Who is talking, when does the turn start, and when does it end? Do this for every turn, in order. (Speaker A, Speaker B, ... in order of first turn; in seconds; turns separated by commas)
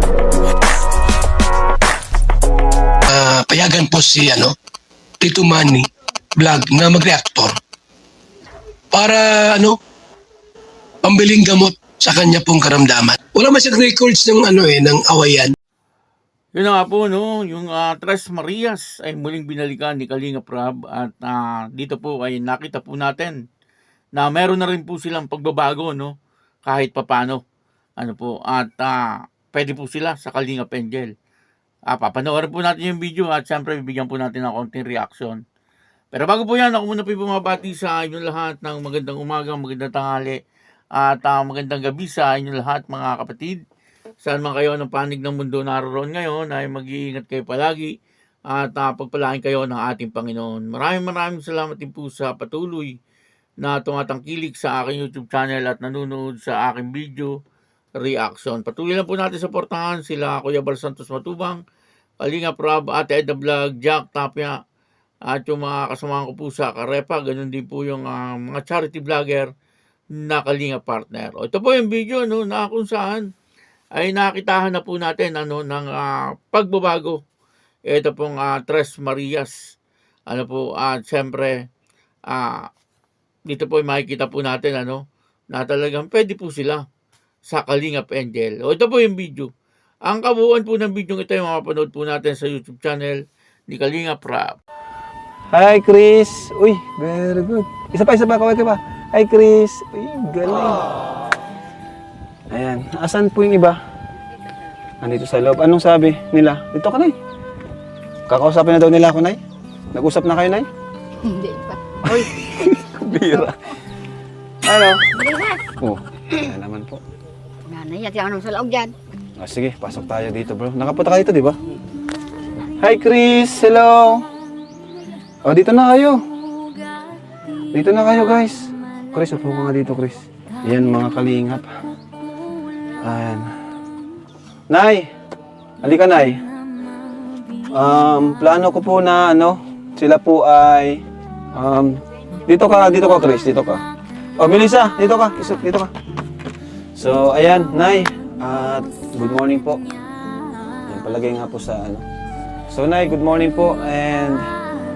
Speaker A: 3.1-4.5, Speaker A: 5.2-7.6, Speaker A: 8.9-9.8, Speaker A: 11.0-15.6, Speaker B: 16.6-23.4, Speaker B: 24.2-26.1, Speaker B: 26.7-27.4, Speaker B: 28.0-29.0, Speaker B: 29.5-31.1, Speaker B: 31.9-35.4, Speaker B: 36.1-40.4, Speaker B: 41.0-43.6, Speaker B: 44.2-47.9, Speaker B: 48.5-52.9, Speaker B: 53.6-57.3, Speaker B: 58.0-61.6, Speaker B: 62.2-64.6, Speaker B: 65.3-69.5, Speaker B: 70.2-73.3, Speaker B: 74.0-77.2, Speaker B: 77.9-79.7, Speaker B: 80.3-81.6, Speaker B: 82.3-82.7, Speaker B: 83.5-86.8, Speaker B: 87.5-89.5, Speaker B: 90.0-94.6, Speaker C: 95.5-100.9, Speaker C: 102.5-103.8, Speaker C: 105.0-107.2, Speaker C: 108.3-109.4, Speaker C: 109.9-110.7, Speaker D: 111.2-112.4, Speaker C: 112.1-113.5, Speaker D: 113.2-113.5, Speaker C: 114.7-115.0, Speaker D: 115.2-115.7, Speaker C: 115.8-117.0, Speaker D: 117.7-119.0, Speaker C: 119.4-121.6, Speaker C: 122.8-124.2, Speaker C: 125.5-126.2, Speaker C: 127.7-131.7, Speaker C: 133.0-133.5, Speaker C: 134.7-135.1, Speaker C: 135.8-136.4, Speaker C: 137.7-141.0, Speaker C: 141.6-143.8, Speaker C: 144.4-145.9, Speaker C: 147.0-149.8, Speaker C: 150.9-152.0, Speaker C: 152.7-154.4